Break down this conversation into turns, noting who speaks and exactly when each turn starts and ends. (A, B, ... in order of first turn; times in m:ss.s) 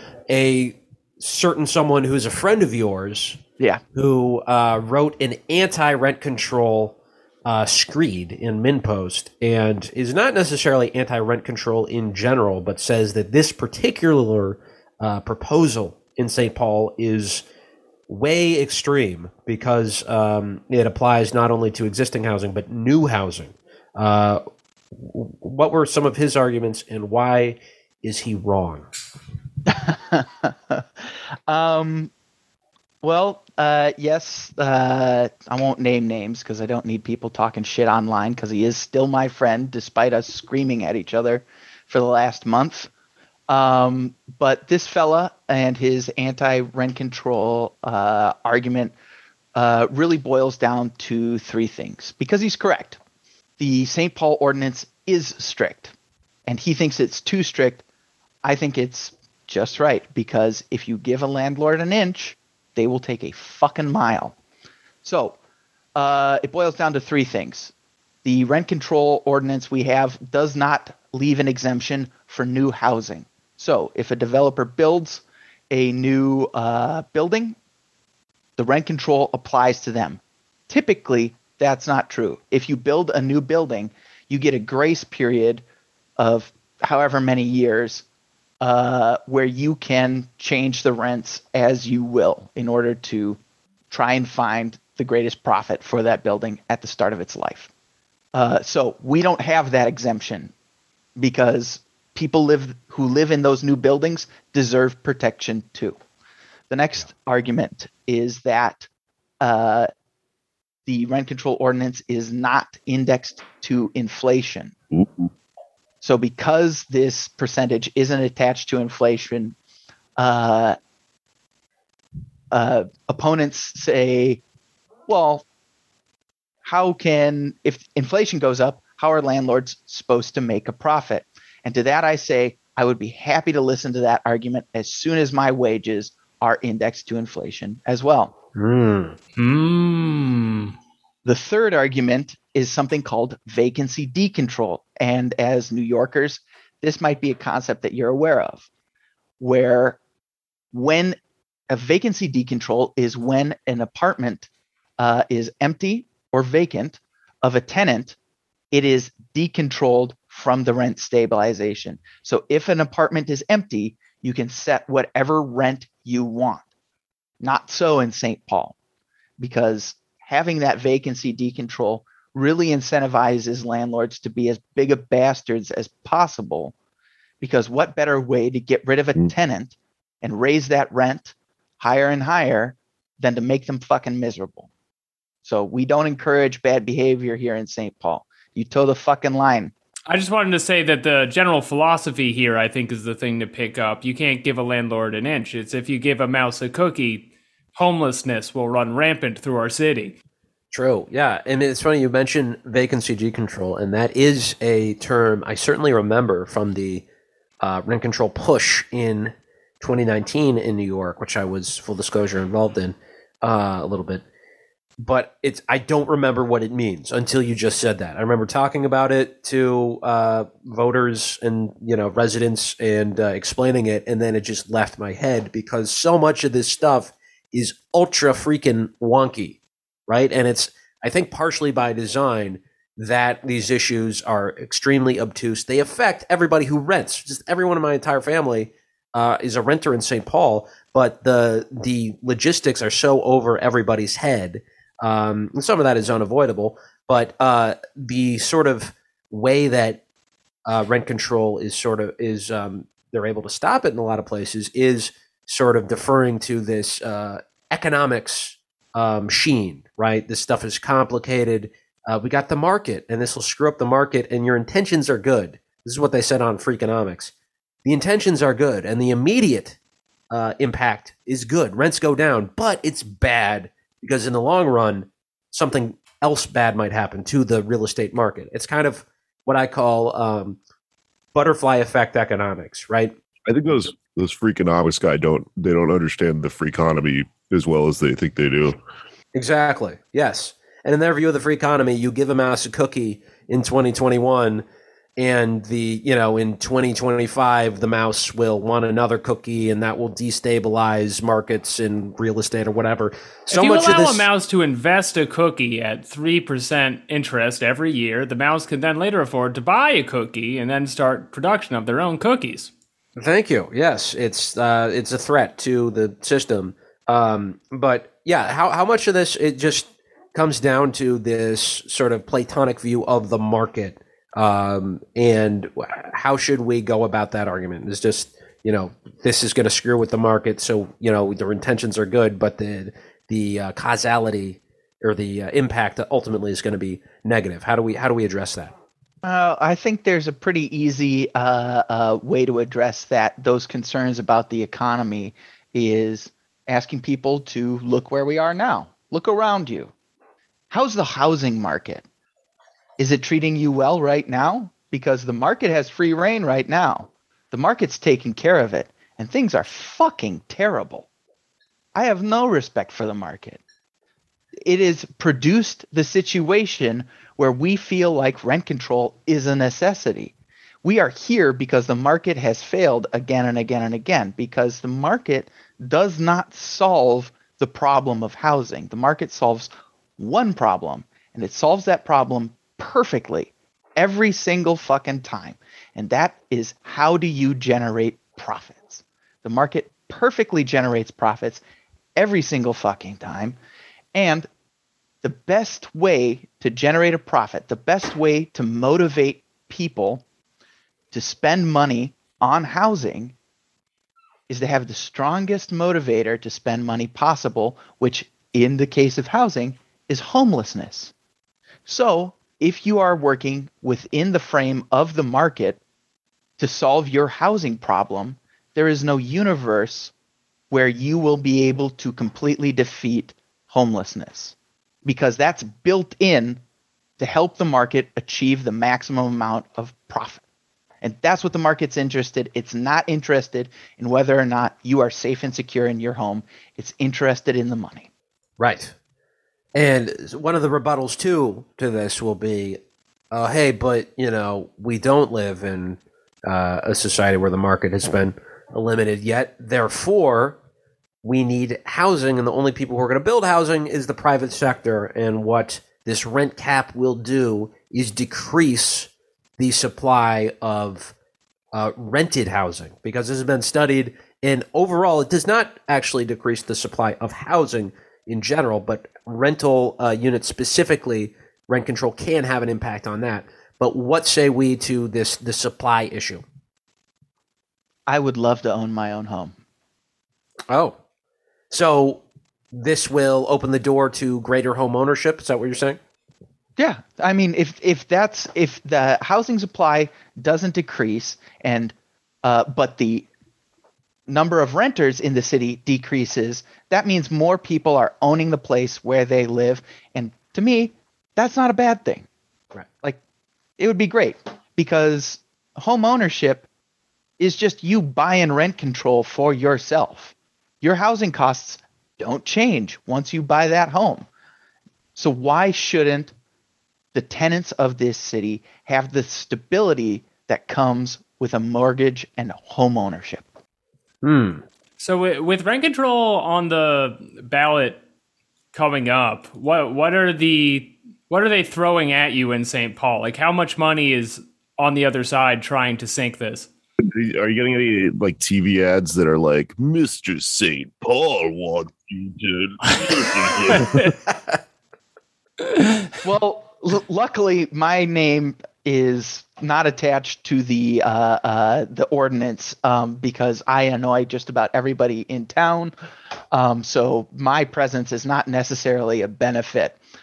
0:00.3-0:03.4 A
0:03.9-0:17.4 A
0:18.1-0:28.9 A
0:29.7-0:32.1 B
0:33.0-0:42.9 B
0:43.5-0:48.9 B
0:49.5-0:53.0 B
0:53.6-0:55.9 B
0:56.5-0:57.8 B
0:58.4-1:04.4 B
1:05.0-1:05.4 B
1:06.0-1:07.7 B
1:08.2-1:17.6 B
1:18.6-1:25.6 B
1:26.2-1:28.0 B
1:28.6-1:33.4 B
1:33.9-1:37.7 B
1:38.3-1:40.5 B
1:41.2-1:46.0 B
1:46.7-1:48.9 B
1:49.4-1:49.9 B
1:50.8-1:54.7 B
1:54.9-1:55.3 C
1:56.0-1:59.5 B
2:00.2-2:00.8 B
2:02.5-2:04.4 B
2:05.1-2:05.4 B
2:06.6-2:18.3 B
2:18.5-2:19.2 A
2:19.4-2:20.7 D
2:21.2-2:28.6 B
2:29.4-2:30.0 B
2:30.7-2:31.2 B
2:31.7-2:38.2 B
2:38.7-2:46.6 B
2:47.4-2:48.7 B
2:49.4-2:56.7 B
2:57.4-3:04.7 B
3:05.4-3:09.7 B
3:10.1-3:20.2 D
3:20.7-3:27.0 A
3:27.6-3:34.2 A
3:35.0-4:10.0 A
4:10.6-4:27.3 A
4:27.8-4:29.8 A
4:30.3-4:40.6 A
4:41.3-4:43.1 A
4:43.5-4:48.8 C
4:49.3-4:54.6 A
4:55.2-5:04.2 A
5:03.5-5:12.7 D
5:13.2-5:38.7 A
5:39.2-5:49.9 B
5:50.7-5:52.0 B
5:53.0-6:01.1 B
6:01.9-6:03.6 B
6:04.6-6:10.3 B
6:10.8-6:31.6 B
6:32.2-6:33.6 B
6:34.1-6:34.5 B
6:35.2-6:40.2 B
6:41.1-6:43.3 B
6:44.5-6:51.1 B
6:51.8-6:55.8 B
6:56.6-7:00.1 B
7:00.7-7:06.6 B
7:07.2-7:10.4 B
7:11.0-7:18.1 B
7:18.6-7:18.9 A
7:19.7-7:30.6 A
7:31.2-7:41.1 A
7:41.7-7:56.4 A
7:58.1-7:59.5 B
8:00.7-8:01.0 A
8:01.7-8:06.0 A
8:06.8-8:13.3 B
8:14.3-8:22.2 B
8:23.8-8:26.7 B
8:27.4-8:34.2 B
8:35.2-8:36.3 B
8:37.1-8:43.5 B
8:44.2-8:44.6 A
8:45.0-8:48.0 D
8:48.7-8:56.7 D
8:57.0-9:04.1 C
9:03.7-9:04.1 D
9:04.3-9:04.6 A
9:05.6-9:06.1 D
9:06.2-9:15.9 B
9:16.5-9:20.0 B